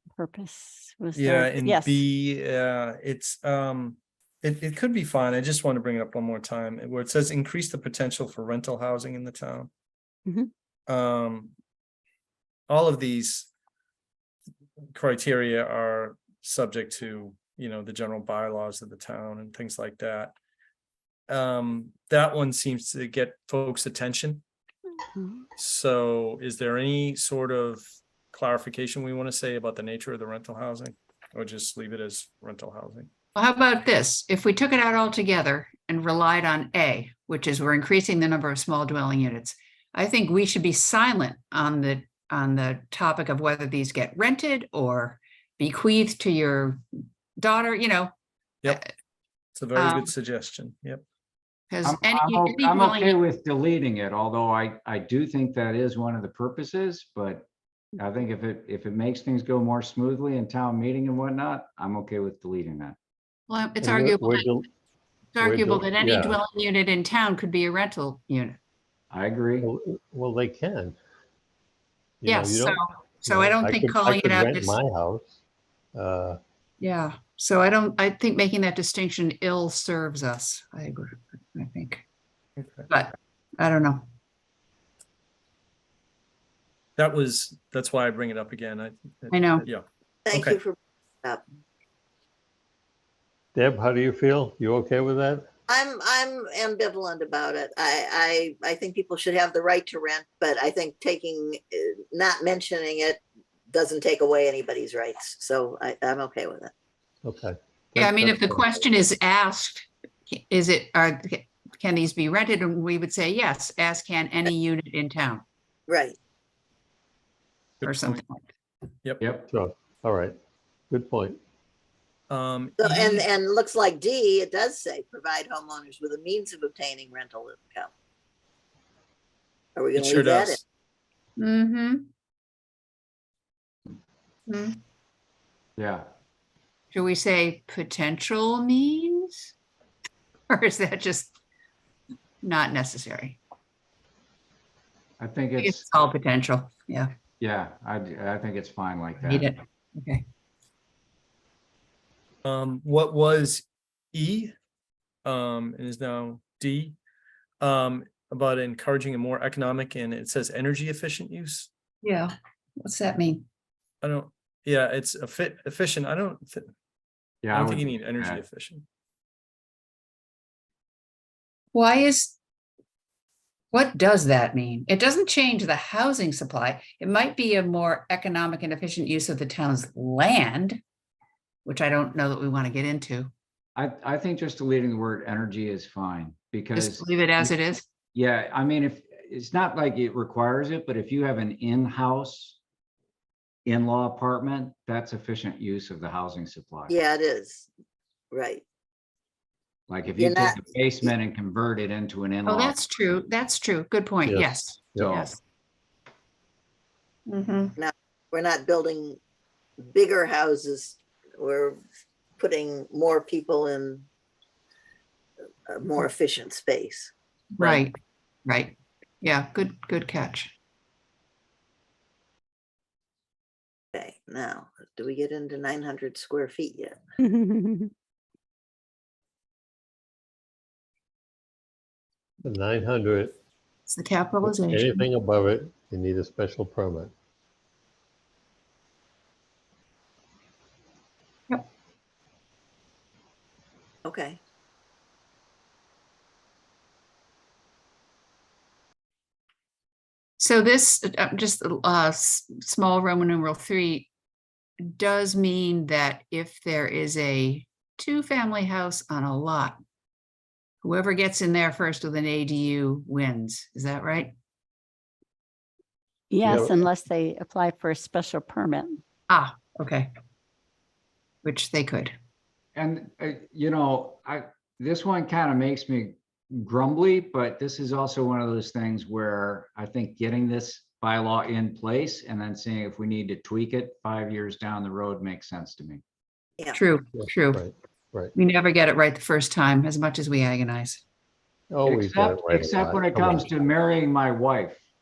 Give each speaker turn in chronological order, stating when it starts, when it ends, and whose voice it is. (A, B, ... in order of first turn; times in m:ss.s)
0:00.2-0:02.0 A
0:01.2-0:09.7 B
0:10.9-0:11.5 B
0:12.7-0:13.5 B
0:14.9-0:20.4 B
0:21.3-0:24.4 B
0:25.6-0:33.1 B
0:33.4-0:46.8 C
0:47.4-0:48.1 C
0:49.6-0:51.0 B
0:49.8-0:50.1 C
0:51.7-0:53.2 C
0:51.8-0:57.5 D
0:58.0-1:03.0 D
1:03.5-1:04.5 C
1:03.8-1:04.7 E
1:05.3-1:08.6 C
1:05.4-1:06.4 E
1:09.1-1:09.7 D
1:09.6-1:11.0 E
1:12.2-1:15.4 E
1:12.3-1:14.8 C
1:15.9-1:16.4 E
1:16.8-1:22.0 C
1:22.6-1:22.9 B
1:22.9-1:24.1 C
1:27.0-1:30.6 B
1:29.3-1:29.7 C
1:30.2-1:31.4 F
1:33.6-1:35.5 E
1:35.7-1:46.7 F
1:47.2-1:48.6 E
1:48.0-1:55.4 C
1:55.9-1:56.2 F
1:57.8-1:58.2 B
1:57.8-1:58.4 C
1:59.2-1:59.5 D
1:59.5-2:00.4 E
2:00.9-2:01.4 E
2:02.3-2:03.2 B
2:02.8-2:07.9 F
2:09.8-2:10.6 F
2:10.0-2:10.6 B
2:11.4-2:12.1 C
2:14.5-2:14.8 C
2:15.8-2:16.1 D
2:16.9-2:19.5 C
2:20.5-2:21.3 C
2:22.4-2:23.4 C
2:25.2-2:25.8 D
2:25.6-2:27.1 C
2:27.4-2:29.5 D
2:29.2-2:30.2 C
2:32.4-2:34.6 B
2:35.2-2:37.0 B
2:37.6-2:41.7 B
2:42.0-2:43.4 C
2:44.0-2:46.7 B
2:47.4-2:48.4 D
2:47.5-2:48.9 B
2:51.7-2:52.4 C
2:53.7-3:00.8 C
3:01.6-3:03.3 C
3:03.8-3:07.5 D
3:06.8-3:07.8 C
3:08.1-3:12.6 D
3:13.7-3:16.9 D
3:16.9-3:17.7 F
3:18.3-3:18.6 F
3:19.9-3:22.8 D
3:20.2-3:21.1 F
3:22.5-3:25.4 C
3:24.2-3:25.1 E
3:25.0-3:25.4 D
3:27.3-3:27.8 C
3:27.8-3:29.2 F
3:29.8-3:31.8 F
3:32.4-3:34.1 F
3:35.7-3:37.1 F
3:37.6-3:38.0 C
3:38.5-3:40.5 C
3:44.0-3:47.0 F
3:47.2-3:47.9 A
3:52.4-3:53.4 E
3:53.9-3:55.1 C
3:54.4-3:57.1 E
4:04.0-4:04.4 F
4:10.4-4:14.1 C
4:14.8-4:19.8 C
4:20.8-4:24.3 C
4:26.3-4:29.0 A
4:26.4-4:26.8 E
4:29.3-4:30.1 C
4:31.4-4:32.1 C
4:32.8-4:46.0 D
4:46.7-4:47.6 C
4:47.2-4:48.3 E
4:48.4-4:51.0 C
4:51.7-4:53.6 E
4:51.9-4:54.8 D